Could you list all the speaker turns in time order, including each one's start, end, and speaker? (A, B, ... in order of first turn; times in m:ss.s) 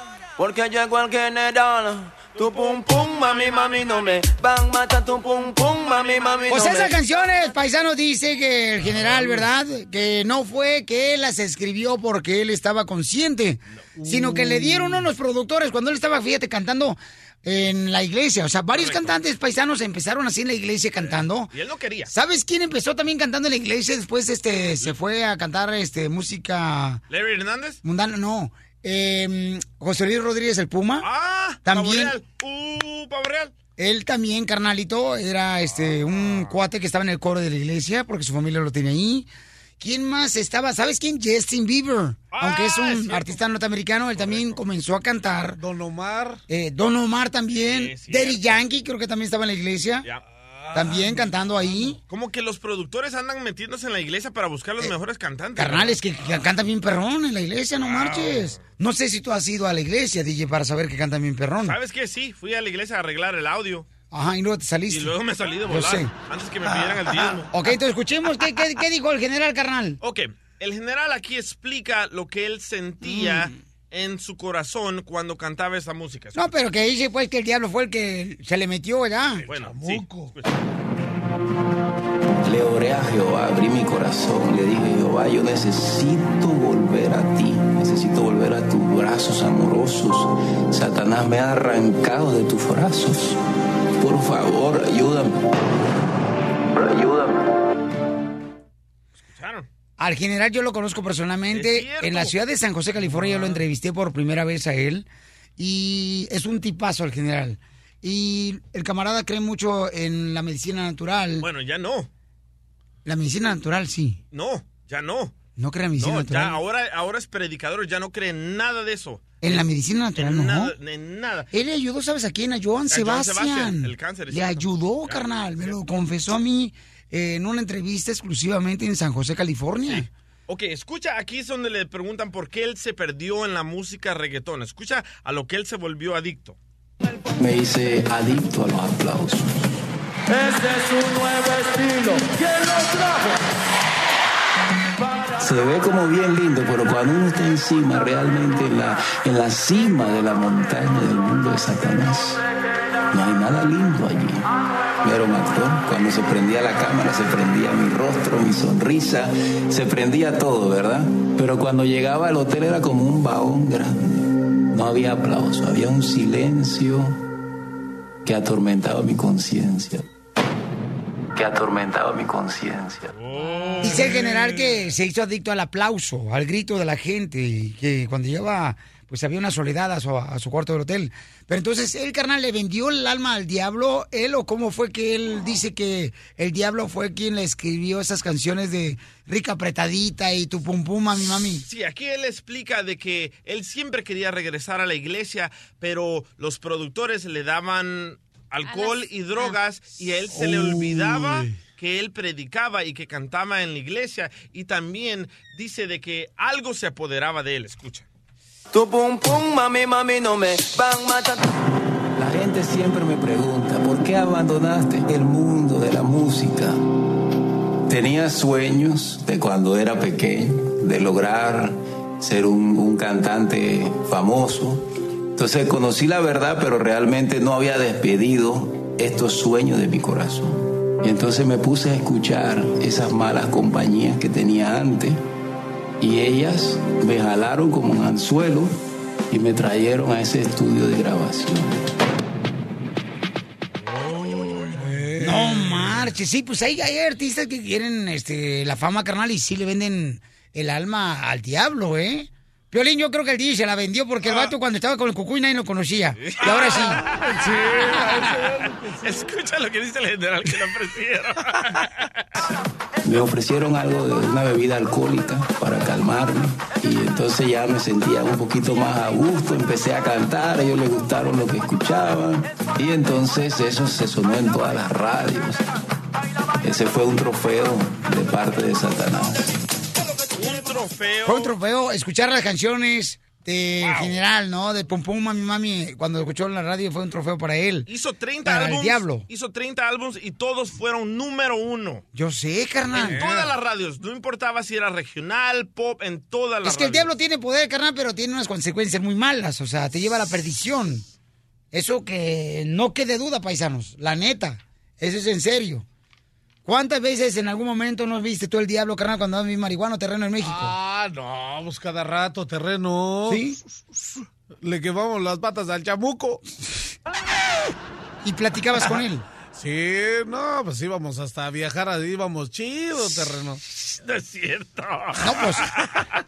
0:00.4-0:06.9 A
0:06.5-0:21.5 B
0:08.9-0:09.4 C
0:14.0-0:15.1 C
0:18.7-0:19.2 D
0:21.0-0:22.1 D
0:22.1-0:27.0 B
0:27.1-0:27.8 D
0:27.8-0:31.1 B
0:31.0-0:33.5 D
0:31.6-0:32.2 B
0:33.8-0:39.3 B
0:35.7-0:36.6 D
0:39.8-0:45.6 B
0:42.3-0:43.4 D
0:44.2-0:44.6 D
0:45.6-0:46.4 C
0:46.5-0:50.1 B
0:47.5-0:48.6 D
0:50.6-0:51.2 C
0:50.7-0:52.0 B
0:52.1-0:56.0 D
0:55.6-1:01.8 B
0:57.8-0:58.6 D
1:01.6-1:03.9 D
1:04.1-1:05.1 B
1:04.9-1:07.5 D
1:05.7-1:06.1 B
1:06.7-1:07.4 C
1:07.5-1:10.0 B
1:10.0-1:16.5 D
1:13.0-1:13.5 B
1:16.4-1:19.4 B
1:19.5-1:20.5 D
1:19.5-1:20.3 C
1:22.4-1:33.4 E
1:34.0-1:35.4 E
1:36.7-1:37.4 E
1:39.3-1:39.7 D
1:40.0-1:45.1 B
1:41.5-1:42.3 D
1:43.1-1:43.5 C
1:45.6-1:51.5 B
1:51.4-1:52.1 D
1:53.0-1:54.2 B
1:54.3-1:55.4 D
1:55.6-1:56.6 B
1:56.0-1:59.6 D
1:59.4-2:00.7 B
2:00.2-2:01.5 D
2:01.5-2:10.1 B
2:02.9-2:05.8 D
2:09.9-2:16.6 D
2:17.4-2:19.7 E
2:20.4-2:22.2 A
2:25.4-2:32.4 E
2:33.1-2:34.5 E
2:35.0-2:47.2 E
2:48.2-2:50.0 E
2:51.3-2:53.1 E
2:53.2-2:54.1 D
2:53.8-3:11.7 B
2:54.1-2:54.4 C
3:11.7-3:28.1 D
3:20.3-3:21.6 C
3:28.7-3:29.0 A
3:28.7-3:31.5 E
3:29.9-3:30.2 A
3:32.2-3:36.8 E
3:37.9-3:44.8 E
3:45.4-3:55.2 E
3:56.0-3:58.7 E
3:59.3-4:01.8 E
4:04.0-4:06.0 C
4:05.2-4:17.0 B
4:16.2-4:18.2 D
4:16.5-4:19.2 C
4:19.0-4:21.9 D
4:23.0-4:35.6 E
4:36.6-4:39.4 E
4:40.3-4:41.5 D
4:41.2-4:47.9 B
4:43.8-4:44.2 D
4:47.9-4:52.0 D
4:48.4-4:49.2 B
4:52.1-4:53.3 B
4:52.9-4:57.1 D
4:53.0-4:53.5 C
4:56.6-5:01.0 B
5:01.7-5:05.9 B
5:06.6-5:10.7 B
5:10.4-5:13.4 C
5:13.3-5:13.6 B
5:13.9-5:16.4 C
5:18.2-5:19.2 B
5:19.6-5:23.6 C
5:24.0-5:26.0 D
5:25.2-5:25.7 B